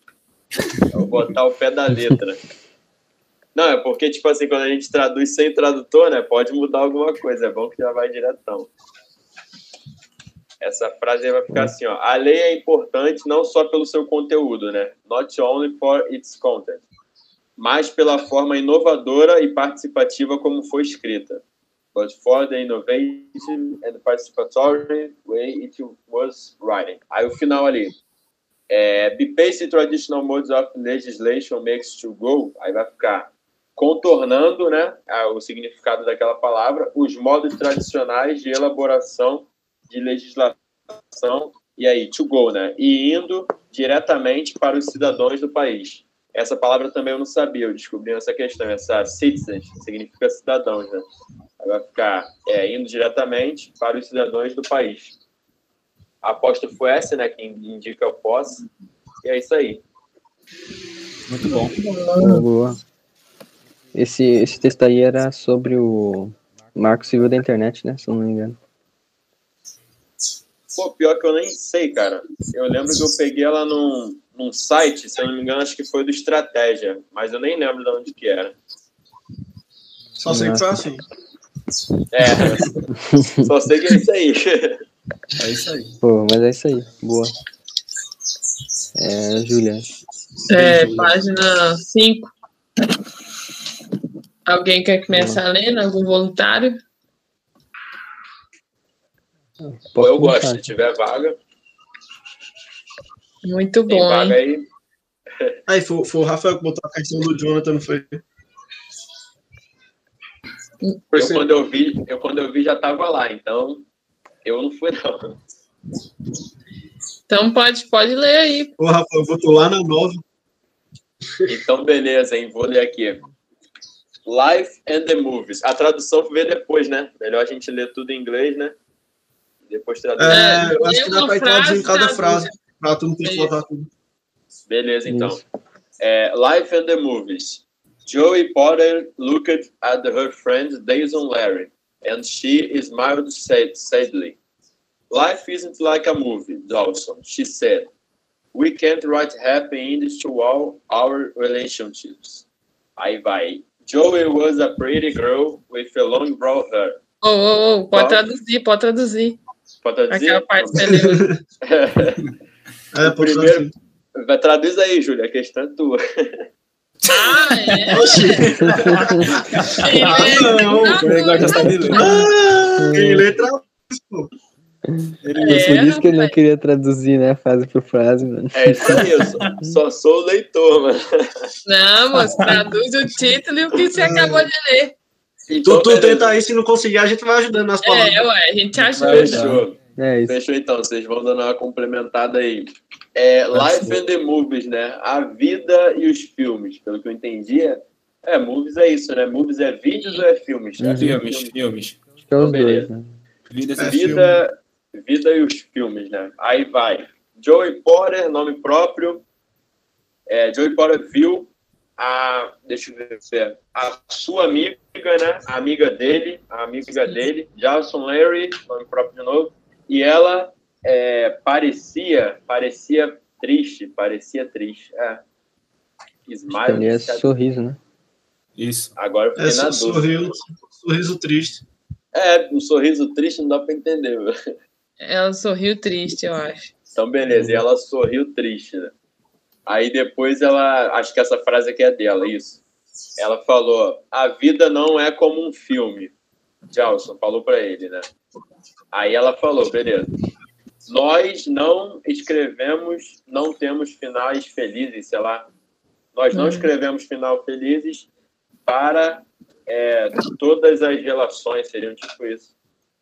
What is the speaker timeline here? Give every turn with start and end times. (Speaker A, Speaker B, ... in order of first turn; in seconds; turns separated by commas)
Speaker A: 0.9-2.4, Speaker A: 3.5-8.7, Speaker A: 10.6-16.8, Speaker A: 17.6-21.4, Speaker A: 21.9-27.9, Speaker A: 28.7-40.6, Speaker A: 41.1-51.0, Speaker A: 51.6-55.1, Speaker A: 56.2-58.6, Speaker A: 59.2-59.8, Speaker B: 61.3-61.7, Speaker C: 62.2-62.8, Speaker C: 63.9-68.6, Speaker A: 70.7-78.5, Speaker D: 80.2-81.0, Speaker C: 80.3-80.7, Speaker A: 82.1-82.8, Speaker C: 83.0-83.5, Speaker A: 83.4-84.8, Speaker B: 85.3-86.0, Speaker C: 86.0-87.3, Speaker C: 88.9-89.9, Speaker E: 90.5-92.3, Speaker B: 90.5-90.9, Speaker E: 94.5-96.8, Speaker C: 95.1-95.4, Speaker C: 99.6-100.7, Speaker A: 100.0-101.4, Speaker E: 103.4-104.4, Speaker A: 103.9-104.7, Speaker D: 105.7-108.2, Speaker E: 110.8-111.3, Speaker A: 111.1-113.8, Speaker A: 114.4-115.3, Speaker E: 117.3-118.7, Speaker D: 118.8-120.2, Speaker A: 121.5-123.2, Speaker A: 124.2-128.7, Speaker A: 129.7-130.4, Speaker D: 130.2-133.9, Speaker E: 130.3-132.6, Speaker E: 133.2-133.5, Speaker A: 134.7-135.4, Speaker C: 135.1-135.4, Speaker A: 136.0-144.4, Speaker A: 145.1-147.9, Speaker A: 148.5-152.4, Speaker A: 153.0-157.0, Speaker E: 157.2-159.4, Speaker A: 157.9-158.2, Speaker A: 159.8-160.8, Speaker E: 160.1-161.3, Speaker D: 160.8-161.4, Speaker A: 161.6-162.2, Speaker D: 162.9-163.7, Speaker A: 163.0-166.4, Speaker B: 167.1-167.8, Speaker E: 167.1-168.8, Speaker D: 167.9-174.3, Speaker B: 169.6-172.2, Speaker E: 169.8-172.3, Speaker C: 172.8-173.2, Speaker C: 174.9-179.0, Speaker B: 175.2-175.7, Speaker E: 175.4-176.4, Speaker A: 178.5-181.0, Speaker E: 181.7-184.9, Speaker B: 182.2-182.6, Speaker D: 183.9-184.5, Speaker A: 185.5-186.4, Speaker D: 185.6-188.3, Speaker E: 187.8-189.4, Speaker B: 188.7-189.6, Speaker A: 189.1-201.5, Speaker C: 189.9-190.3, Speaker C: 193.5-194.0, Speaker C: 200.8-201.2, Speaker B: 201.0-202.0, Speaker C: 202.3-203.2, Speaker A: 202.4-202.9, Speaker B: 203.5-204.2, Speaker D: 203.8-204.4, Speaker A: 203.8-209.2, Speaker A: 210.3-225.2, Speaker A: 226.2-227.2, Speaker C: 226.5-227.8, Speaker B: 228.6-228.9, Speaker A: 229.0-230.2, Speaker D: 229.4-231.6, Speaker A: 232.1-234.3, Speaker E: 235.0-236.7, Speaker A: 236.9-238.9, Speaker C: 237.3-237.6, Speaker A: 239.7-242.6, Speaker A: 243.2-246.1, Speaker A: 246.7-248.1, Speaker A: 248.9-250.1, Speaker A: 250.9-255.5, Speaker A: 256.1-258.1, Speaker E: 256.3-256.7, Speaker A: 258.6-262.5